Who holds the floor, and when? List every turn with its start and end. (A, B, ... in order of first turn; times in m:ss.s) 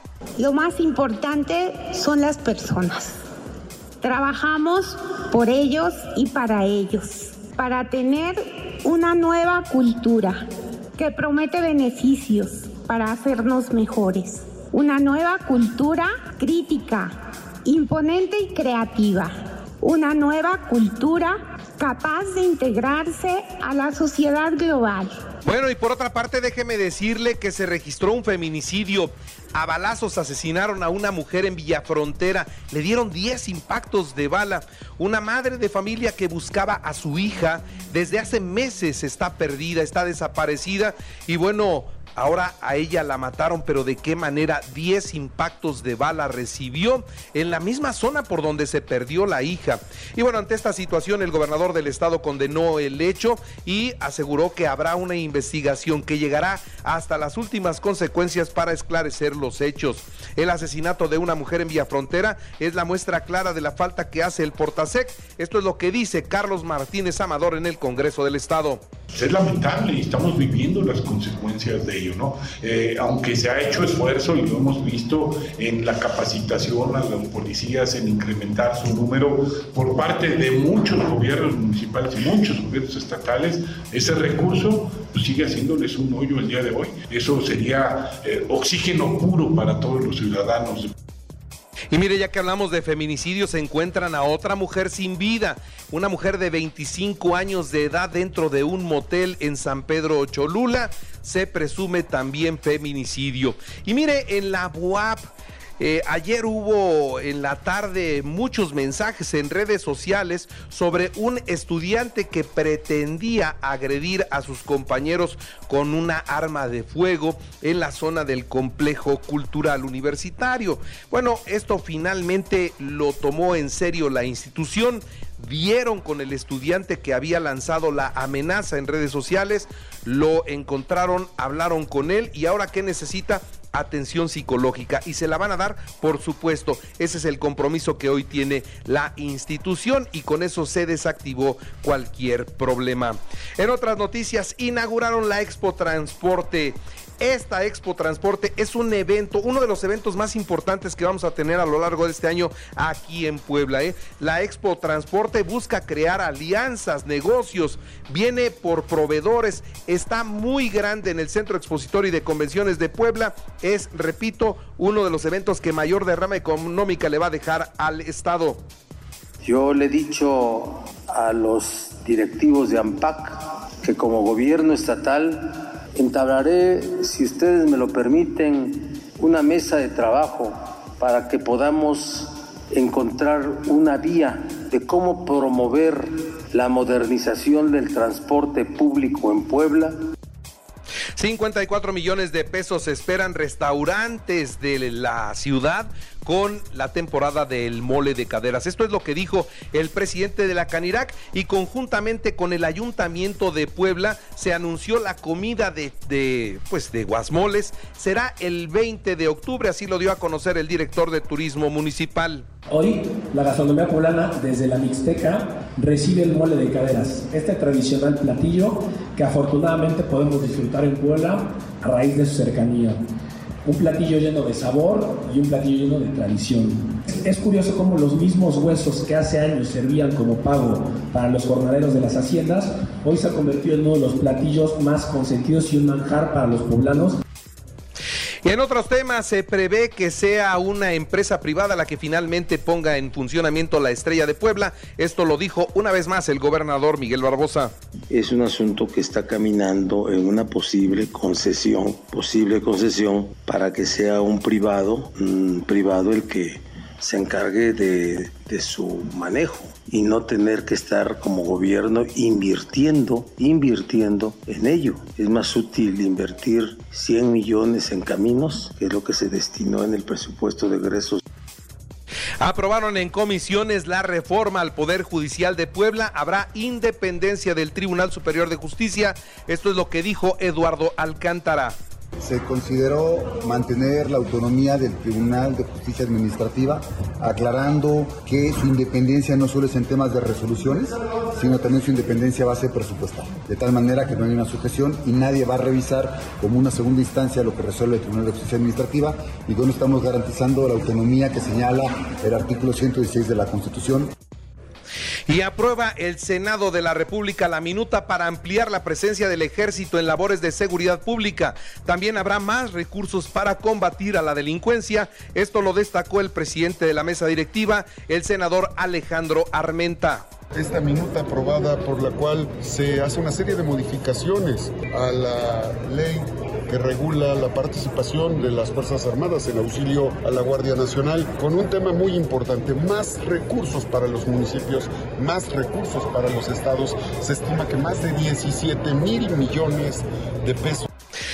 0:00.4-0:03.2 A
0:04.0-0:10.4 A
0:11.0-0:25.1 A
0:25.4-1:08.8 B
1:09.1-1:30.9 C
1:31.9-2:48.7 B
2:49.4-3:10.0 D
3:11.2-3:32.5 B
3:32.7-3:43.0 E
3:43.6-3:57.2 E
3:58.4-4:07.8 B
4:08.1-4:31.2 D
4:32.4-4:41.8 B
4:42.2-5:04.1 F
5:05.3-5:20.3 B
5:20.5-5:40.9 G